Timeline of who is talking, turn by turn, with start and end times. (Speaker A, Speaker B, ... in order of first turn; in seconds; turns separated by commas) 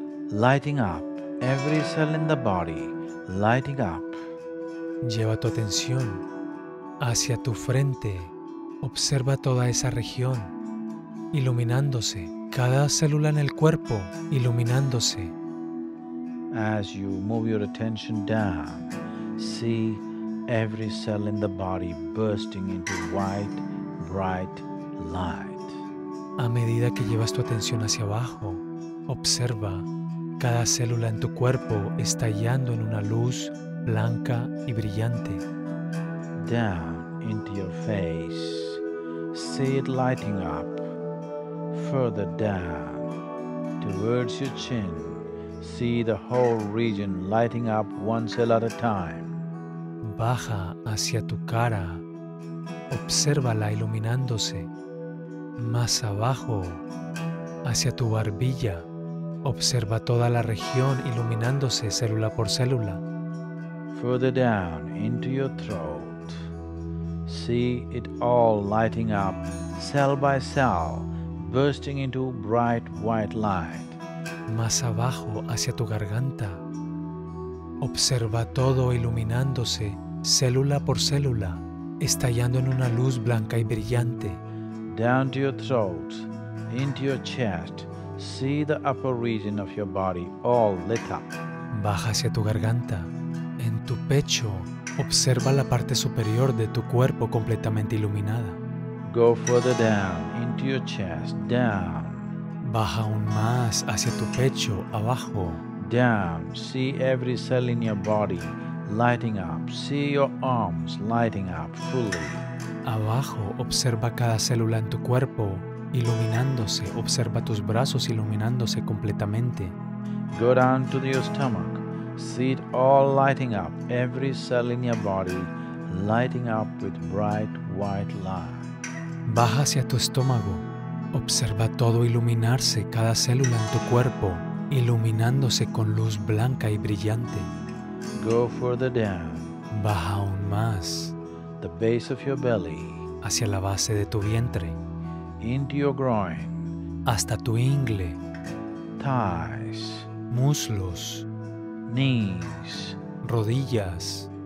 Speaker A: 0.3-4.2, Speaker B: 5.0-6.2, Speaker B: 7.0-10.5, Speaker B: 11.3-15.3, Speaker A: 16.5-25.8, Speaker B: 26.4-29.9, Speaker B: 30.4-35.4, Speaker A: 36.4-40.9, Speaker A: 41.7-43.1, Speaker A: 43.8-49.4, Speaker B: 50.0-52.0, Speaker B: 52.9-54.7, Speaker B: 55.6-56.8, Speaker B: 57.6-58.9, Speaker B: 59.4-63.0, Speaker A: 63.9-66.4, Speaker A: 67.2-74.0, Speaker B: 74.5-76.6, Speaker B: 77.8-84.4, Speaker A: 84.9-91.4, Speaker B: 91.7-98.6, Speaker A: 99.0-102.3, Speaker B: 102.6-105.6, Speaker A: 105.8-112.5, Speaker B: 112.8-119.7, Speaker A: 120.3-128.7, Speaker B: 129.3-137.5, Speaker A: 138.1-139.6, Speaker B: 139.7-141.1, Speaker A: 141.6-143.1, Speaker B: 143.2-144.8, Speaker A: 145.4-146.7, Speaker B: 147.0-148.2, Speaker A: 149.0-150.1, Speaker B: 150.3-151.3, Speaker A: 151.8-153.0, Speaker B: 153.2-154.3